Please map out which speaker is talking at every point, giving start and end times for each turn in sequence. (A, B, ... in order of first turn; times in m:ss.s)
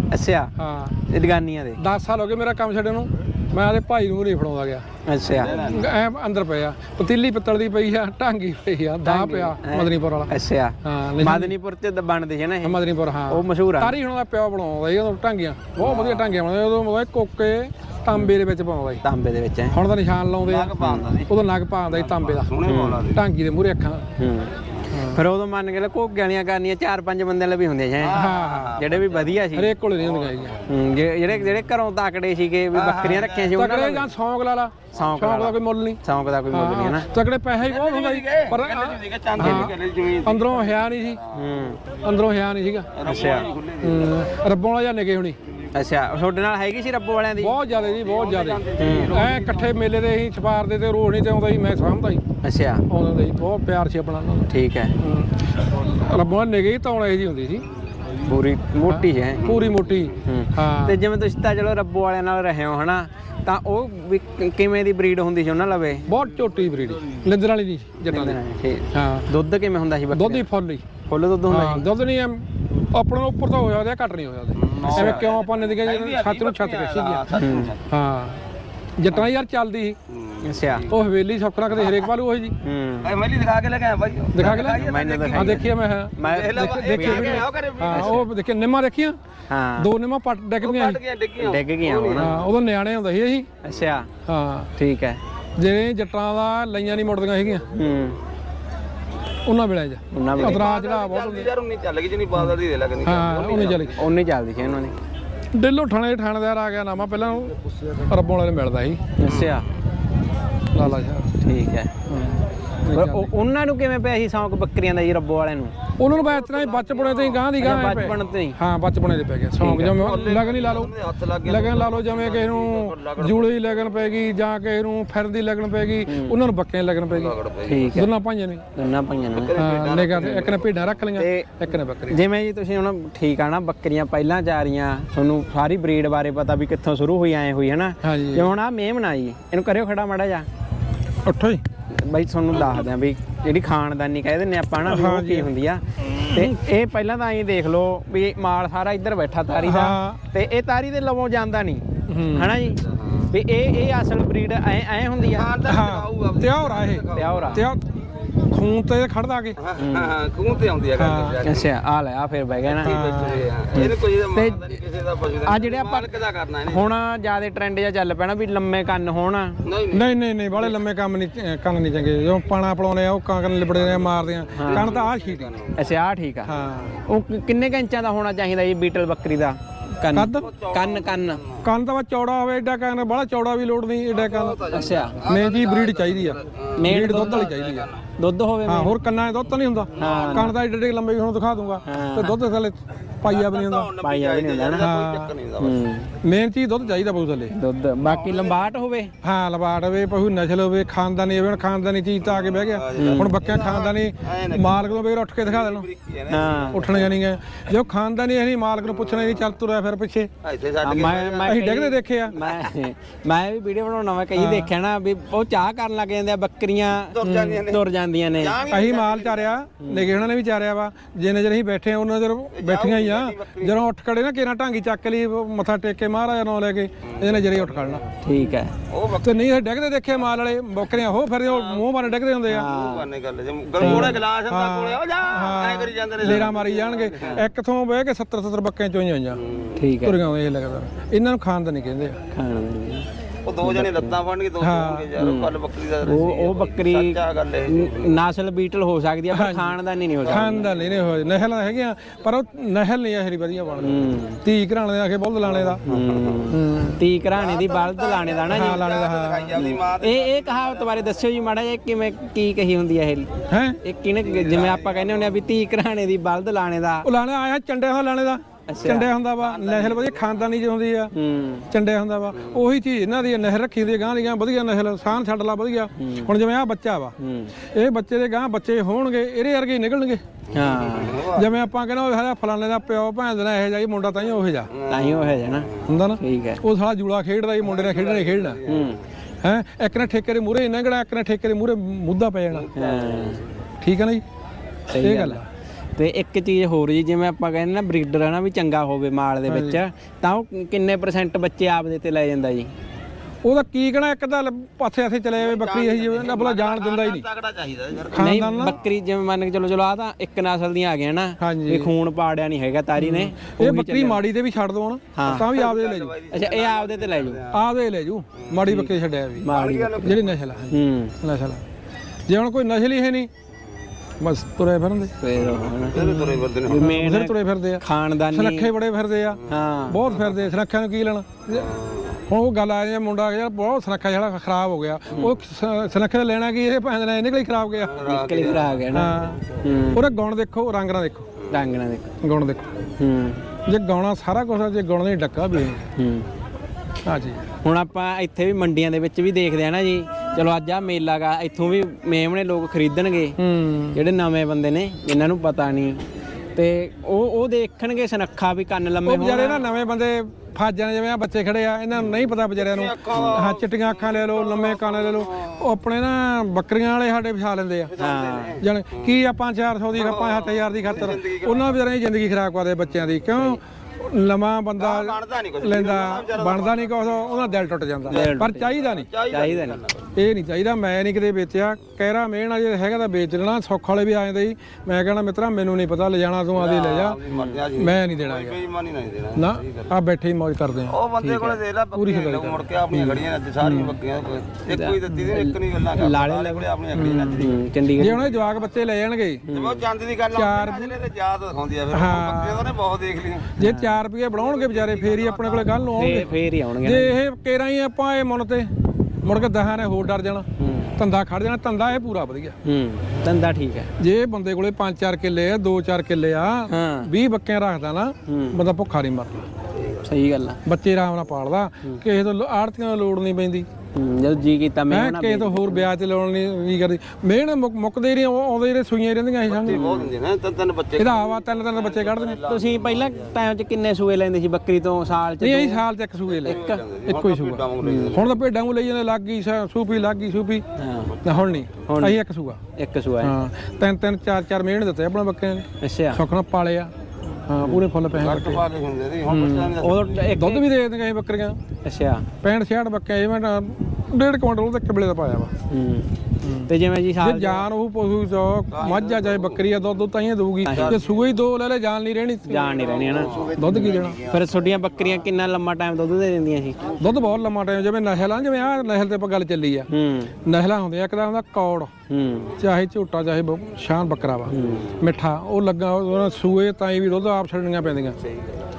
0:00.1-0:00.5 A
0:00.6-0:01.0 B
0:01.1-0:01.8 A
0:01.8-0:04.8 B
0:05.0-0:05.7 A
0:05.2-0:05.9 C
0:05.4-0:10.3 B
0:09.0-0:13.9 A
0:10.8-0:11.5 B
0:12.6-0:19.0 B
0:15.8-0:16.3 C
0:19.0-0:19.8 A
0:19.7-0:20.7 B
0:20.4-0:21.3 C
0:21.3-0:22.5 B
0:21.9-0:23.2 C
0:22.6-0:23.0 A
0:23.1-0:24.0 B
0:24.2-0:24.5 A
0:24.9-0:25.2 B
0:25.1-0:29.7 A
0:28.0-0:29.4 C
0:28.1-0:28.8 B
0:29.5-0:30.6 B
0:30.0-0:30.6 C
0:30.7-0:34.1 A
0:32.7-0:33.6 C
0:33.5-0:36.0 B
0:34.9-0:37.1 A
0:36.5-0:41.2 B
0:37.6-0:40.8 C
0:39.4-0:39.7 A
0:41.3-0:41.8 A
0:42.0-0:42.9 B
0:42.9-0:44.3 C
0:43.0-0:43.5 A
0:43.8-0:45.4 B
0:45.7-0:47.6 A
0:47.4-0:52.2 B
0:47.8-0:49.7 C
0:48.8-0:49.2 A
0:52.4-0:52.8 A
0:52.9-0:57.6 B
0:54.5-0:54.9 A
0:58.2-1:06.1 A
0:58.9-1:01.0 B
0:59.4-1:00.1 C
1:06.1-1:08.4 B
1:08.0-1:10.5 A
1:08.9-1:09.3 B
1:10.1-1:10.8 B
1:11.0-1:11.9 A
1:11.5-1:17.3 B
1:14.6-1:17.9 C
1:14.9-1:15.3 A
1:17.3-1:17.7 A
1:17.9-1:18.4 B
1:19.0-1:20.0 B
1:20.1-1:20.8 C
1:20.4-1:20.9 A
1:20.9-1:22.6 B
1:21.7-1:22.1 A
1:22.6-1:23.1 A
1:23.0-1:25.7 C
1:24.3-1:29.2 B
1:24.4-1:28.3 A
1:26.2-1:28.1 C
1:29.5-1:29.9 A
1:29.8-1:31.0 B
1:30.6-1:32.4 C
1:31.4-1:32.4 A
1:32.2-1:33.5 B
1:33.6-1:34.1 A
1:34.3-1:34.7 B
1:34.8-1:35.2 A
1:35.6-1:37.7 B
1:37.7-1:38.2 A
1:39.4-1:41.5 B
1:40.1-1:40.7 A
1:40.4-1:44.1 C
1:43.0-1:44.0 B
1:44.0-1:45.0 A
1:45.5-1:49.0 B
1:49.2-1:49.7 A
1:49.3-1:49.7 C
1:50.7-1:51.3 B
1:51.4-1:51.9 A
1:52.1-1:53.3 B
1:52.9-1:55.7 A
1:56.0-2:00.9 B
1:56.1-1:57.4 C
1:57.6-1:58.6 A
1:59.6-2:00.0 A
1:59.8-2:03.6 C
2:01.4-2:07.4 B
2:06.1-2:06.4 A
2:07.1-2:08.0 C
2:07.6-2:08.1 A
2:07.9-2:08.6 B
2:08.7-2:09.5 A
2:09.3-2:10.8 C
2:09.5-2:12.2 B
2:11.2-2:11.5 A
2:12.1-2:20.5 A
2:18.0-2:18.5 B
2:21.2-2:21.6 B
2:21.9-2:35.5 A
2:24.8-2:25.5 B
2:26.1-2:26.5 B
2:29.6-2:30.2 B
2:32.1-2:32.6 B
2:35.2-2:37.6 C
2:35.6-2:37.8 B
2:37.1-2:37.6 A
2:38.5-2:39.6 B
2:39.6-2:41.7 C
2:39.8-2:40.1 A
2:41.0-2:41.4 B
2:41.4-2:43.0 A
2:42.6-2:46.9 C
2:42.8-2:43.5 B
2:43.7-2:44.8 A
2:45.4-2:46.1 A
2:46.6-2:49.6 A
2:49.6-2:50.1 C
2:49.9-2:55.5 B
2:54.5-2:55.9 C
2:54.6-2:54.9 A
2:55.8-3:01.4 A
2:56.4-2:57.0 B
3:00.1-3:00.5 B
3:00.3-3:01.6 C
3:01.6-3:04.6 B
3:04.1-3:08.0 C
3:04.7-3:05.2 A
3:05.2-3:07.9 B
3:06.8-3:07.5 A
3:08.2-3:09.0 A
3:08.6-3:13.9 B
3:09.9-3:10.5 C
3:10.0-3:10.6 A
3:11.9-3:12.4 A
3:13.3-3:15.8 C
3:14.0-3:14.9 A
3:14.8-3:15.3 B
3:15.6-3:16.1 A
3:16.2-3:17.5 B
3:17.5-3:19.1 A
3:18.0-3:18.6 C
3:19.2-3:25.9 B
3:22.3-3:24.9 C
3:22.9-3:23.4 A
3:25.4-3:27.2 C
3:26.3-3:26.9 A
3:26.7-3:30.3 B
3:29.0-3:29.4 C
3:30.4-3:31.6 C
3:30.8-3:38.6 A
3:31.4-3:32.4 B
3:34.3-3:34.7 B
3:37.1-3:37.8 C
3:37.2-3:37.6 B
3:38.3-3:39.5 C
3:38.7-3:48.0 B
3:39.8-3:40.1 A
3:42.5-3:43.7 C
3:47.1-3:48.0 C
3:48.2-3:48.7 A
3:48.9-3:49.5 C
3:49.2-3:52.7 B
3:51.4-3:51.8 C
3:52.5-3:53.1 A
3:52.6-3:57.4 C
3:53.8-3:54.2 A
3:53.8-3:59.4 B
3:59.4-3:59.8 C
3:59.8-4:00.2 A
4:00.0-4:02.2 B
4:02.3-4:03.0 A
4:03.4-4:08.1 C
4:03.6-4:04.2 A
4:04.6-4:05.1 B
4:05.2-4:10.6 A
4:09.3-4:15.8 B
4:10.2-4:10.8 C
4:13.8-4:14.4 A
4:15.6-4:16.4 C
4:15.9-4:18.8 A
4:16.5-4:17.0 B
4:17.3-4:20.9 C
4:18.5-4:19.6 B
4:19.6-4:23.3 A
4:23.5-4:23.8 B
4:23.8-4:27.1 A
4:24.2-4:25.2 C
4:27.0-4:31.1 B
4:28.7-4:29.1 A
4:28.8-4:30.5 C
4:31.1-4:31.7 A
4:31.7-4:37.1 B
4:32.3-4:32.6 C
4:36.0-4:36.3 A
4:37.2-4:37.5 A
4:37.7-4:40.2 B
4:40.5-4:41.2 A
4:40.6-4:41.5 C
4:41.3-4:44.7 B
4:44.7-4:45.8 C
4:44.9-4:45.7 A
4:45.8-4:48.6 B
4:46.2-4:46.6 A
4:47.6-4:49.0 C
4:48.6-4:49.0 A
4:49.4-4:52.7 B
4:52.7-4:53.4 C
4:52.7-4:53.4 A
4:53.8-4:54.2 B
4:54.9-4:55.4 A
4:54.9-4:55.4 B
4:56.0-5:02.7 A
4:59.4-4:59.8 B
5:03.4-5:07.3 B
5:05.4-5:08.3 C
5:08.1-5:08.8 B
5:08.2-5:14.2 A
5:11.4-5:11.9 B
5:13.0-5:16.1 B
5:15.1-5:15.5 A
5:15.5-5:17.6 C
5:16.3-5:17.4 A
5:17.5-5:19.5 B
5:18.6-5:21.1 A
5:19.5-5:20.2 C
5:20.0-5:21.6 B
5:22.3-5:23.3 B
5:24.2-5:25.2 B
5:25.2-5:28.7 A
5:25.7-5:26.9 C
5:26.6-5:31.7 B
5:29.5-5:30.0 A
5:30.1-5:30.4 C
5:31.5-5:32.2 C
5:32.3-5:38.0 B
5:37.9-5:38.8 C
5:38.0-5:40.1 A
5:38.9-5:39.4 B
5:39.9-5:41.3 B
5:41.5-5:42.1 A
5:42.2-5:42.7 B
5:43.0-5:43.4 A
5:43.6-5:45.8 B
5:46.0-5:46.3 A
5:47.0-5:47.4 B
5:47.6-5:53.4 A
5:53.4-5:54.0 B
5:53.9-5:56.0 A
5:56.5-5:59.6 A
5:59.0-6:07.9 B
6:02.6-6:05.6 C
6:07.9-6:09.2 C
6:08.0-6:08.6 A
6:08.6-6:19.1 B
6:09.9-6:11.8 C
6:14.8-6:17.6 C
6:18.1-6:20.0 C
6:18.1-6:19.8 A
6:20.2-6:27.2 B
6:26.5-6:29.9 C
6:27.3-6:27.6 A
6:27.8-6:28.6 B
6:29.4-6:31.0 B
6:30.9-6:37.6 C
6:31.2-6:31.6 A
6:31.9-6:34.0 B
6:34.7-6:36.6 A
6:36.9-6:39.4 B
6:37.3-6:38.2 A
6:39.5-6:39.8 A
6:39.5-6:43.6 C
6:40.3-6:40.9 B
6:41.9-6:42.7 B
6:43.6-6:48.7 B
6:43.6-6:44.0 A
6:44.3-6:46.2 C
6:46.0-6:47.1 A
6:49.2-6:52.6 B
6:50.6-6:50.9 A
6:52.6-6:53.9 A
6:54.0-6:59.5 B
6:56.7-6:57.1 A
6:58.3-6:58.6 A
7:00.0-7:00.6 A
7:00.6-7:03.7 B
7:03.9-7:05.9 A
7:04.9-7:09.8 B
7:09.4-7:13.1 C
7:09.7-7:10.1 A
7:11.0-7:12.4 B
7:12.5-7:15.8 A
7:15.4-7:20.6 B
7:16.3-7:18.3 C
7:16.4-7:16.8 A
7:17.8-7:18.1 A
7:20.8-7:21.2 A
7:21.2-7:22.6 B
7:21.8-7:22.2 A
7:22.8-7:23.3 A
7:23.2-7:26.9 B
7:25.8-7:26.2 A
7:27.4-7:28.6 B
7:28.2-7:30.4 C
7:29.3-7:29.8 B
7:29.8-7:30.6 A
7:30.4-7:31.6 B
7:31.8-7:32.3 A
7:32.4-7:35.5 B
7:35.7-7:36.1 A
7:36.4-7:42.7 B
7:36.6-7:37.6 A
7:38.7-7:39.6 C
7:40.6-7:41.0 A
7:40.6-7:41.2 C
7:42.5-7:46.8 A
7:42.7-7:44.7 C
7:43.5-7:44.2 B
7:47.0-7:49.9 B
7:49.9-7:50.3 A
7:50.4-7:51.9 B
7:52.1-7:52.6 A
7:52.6-7:58.2 B
7:54.5-7:54.9 A